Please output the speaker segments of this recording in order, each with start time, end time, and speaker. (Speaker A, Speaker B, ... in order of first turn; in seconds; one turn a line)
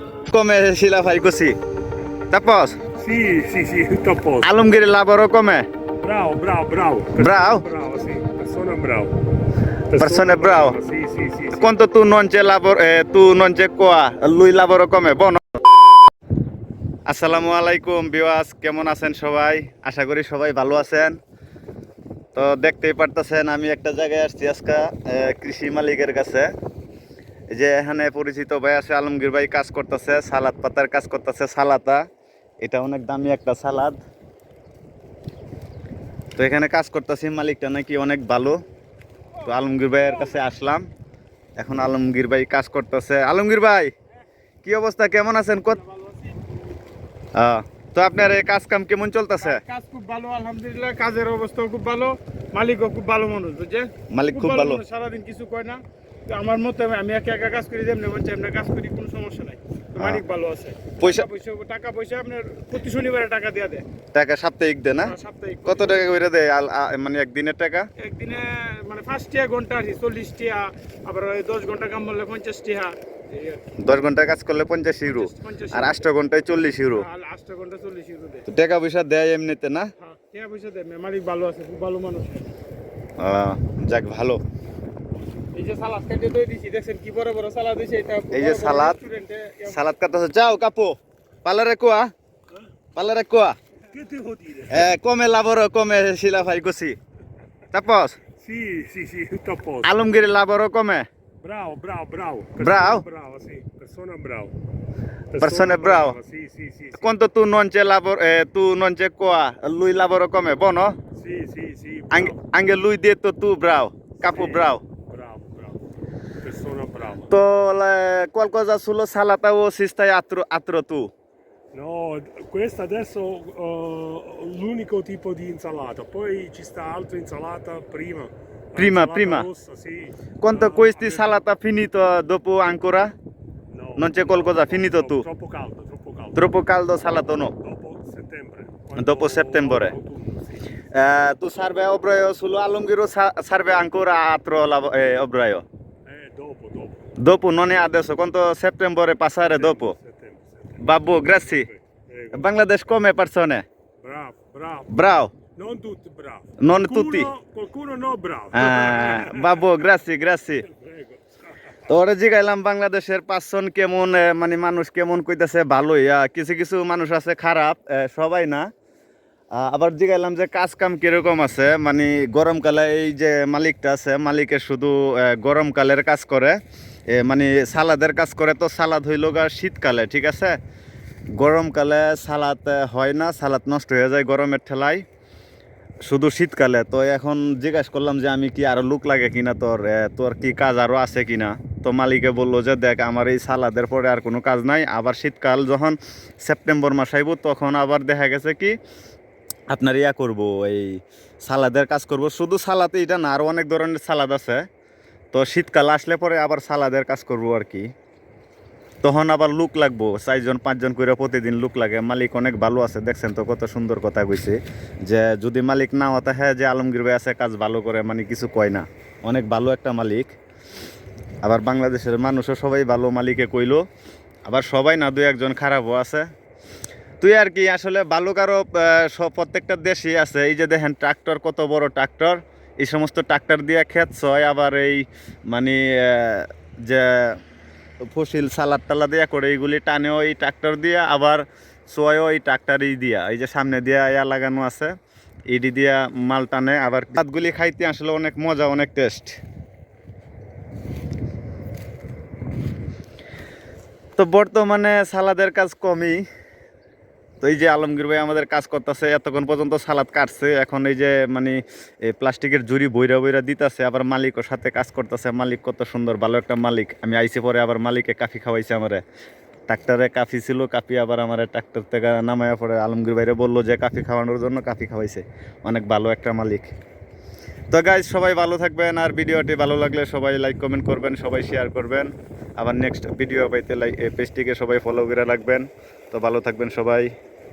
Speaker A: 0.3-1.5
Speaker A: 2.3-2.8
Speaker B: 3.0-4.5
Speaker A: 4.4-5.7
Speaker B: 6.0-9.1
Speaker A: 7.2-7.6
Speaker B: 9.9-11.7
Speaker A: 10.0-10.8
Speaker A: 11.5-15.4
Speaker A: 17.1-21.2
Speaker A: 22.3-26.5
Speaker A: 27.5-32.0
Speaker A: 32.6-34.0
Speaker A: 36.4-38.6
Speaker A: 39.4-40.9
Speaker A: 41.6-43.9
Speaker A: 44.6-45.8
Speaker C: 45.7-46.4
Speaker A: 47.4-49.6
Speaker C: 49.4-63.9
Speaker A: 54.1-54.8
Speaker A: 61.0-61.3
Speaker A: 64.1-65.1
Speaker C: 65.0-66.1
Speaker A: 65.7-67.9
Speaker C: 68.0-73.6
Speaker A: 73.8-77.1
Speaker C: 75.0-76.0
Speaker C: 76.9-78.5
Speaker A: 78.5-79.9
Speaker C: 80.0-82.5
Speaker A: 83.2-84.4
Speaker C: 85.5-89.8
Speaker A: 88.3-89.0
Speaker A: 89.7-92.1
Speaker A: 92.9-93.6
Speaker B: 93.9-94.9
Speaker A: 94.7-97.0
Speaker A: 97.7-98.2
Speaker B: 98.4-99.9
Speaker A: 99.8-101.1
Speaker B: 101.4-104.5
Speaker A: 102.6-103.0
Speaker B: 105.3-107.1
Speaker A: 105.4-106.2
Speaker A: 107.0-111.0
Speaker B: 111.1-112.4
Speaker A: 112.1-114.8
Speaker B: 114.2-115.8
Speaker B: 116.4-117.3
Speaker A: 117.3-121.1
Speaker B: 121.7-131.4
Speaker A: 128.8-129.5
Speaker A: 130.4-133.1
Speaker B: 133.7-136.5
Speaker A: 134.0-135.2
Speaker A: 136.3-137.5
Speaker B: 137.6-140.8
Speaker A: 138.9-139.9
Speaker A: 140.9-145.6
Speaker B: 146.1-147.0
Speaker A: 147.2-149.9
Speaker B: 149.4-150.8
Speaker A: 150.8-151.7
Speaker B: 151.4-152.5
Speaker A: 152.3-153.6
Speaker B: 154.0-159.9
Speaker A: 154.9-155.3
Speaker A: 156.6-157.3
Speaker A: 158.5-160.7
Speaker B: 160.6-161.9
Speaker A: 161.9-168.7
Speaker A: 169.5-176.6
Speaker A: 177.1-180.6
Speaker A: 181.3-185.0
Speaker A: 186.1-198.8
Speaker A: 199.7-204.7
Speaker A: 205.3-207.9
Speaker A: 209.0-220.3
Speaker A: 221.4-223.8
Speaker A: 224.5-226.3
Speaker A: 227.2-237.4
Speaker A: 238.1-244.9
Speaker A: 245.5-249.4
Speaker A: 254.2-256.2
Speaker A: 257.4-269.0
Speaker A: 269.7-276.7
Speaker A: 277.7-287.1